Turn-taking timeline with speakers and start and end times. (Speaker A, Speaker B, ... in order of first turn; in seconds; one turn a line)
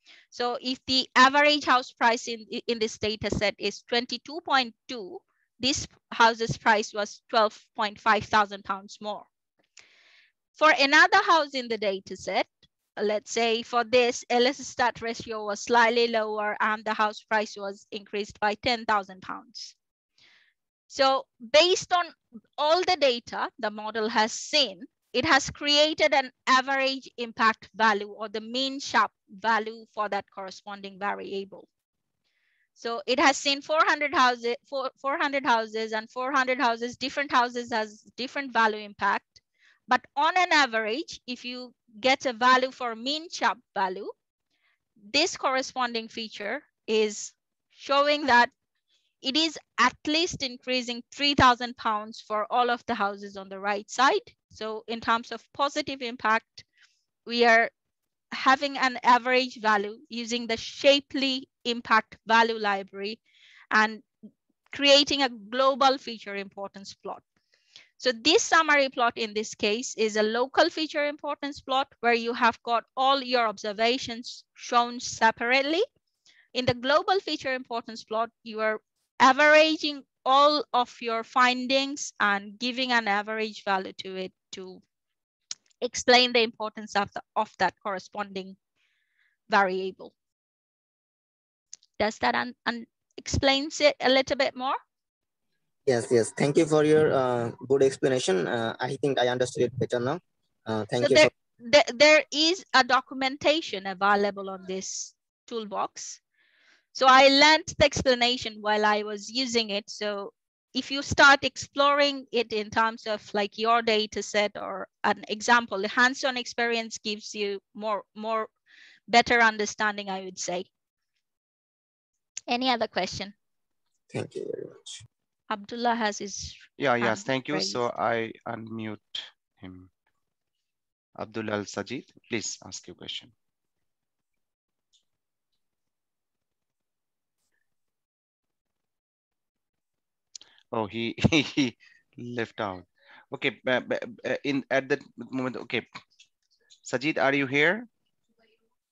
Speaker A: 0.3-9.3
Speaker A: 10.6-19.8
Speaker A: 20.9-31.7
Speaker A: 32.8-44.1
Speaker A: 45.0-48.5
Speaker A: 49.2-56.6
Speaker A: 57.3-57.7
Speaker A: 58.3-63.2
Speaker A: 63.7-64.0
Speaker A: 64.7-67.2
Speaker A: 68.0-75.8
Speaker A: 76.5-84.8
Speaker A: 85.8-88.6
Speaker A: 89.5-90.1
Speaker A: 92.0-94.8
Speaker B: 95.9-101.3
Speaker A: 101.0-106.2
Speaker A: 107.0-118.5
Speaker A: 119.1-120.7
Speaker A: 122.5-123.3
Speaker B: 124.1-125.0
Speaker A: 125.5-127.8
Speaker C: 126.8-129.9
Speaker C: 131.2-133.3
Speaker C: 140.7-145.9
Speaker C: 146.8-147.9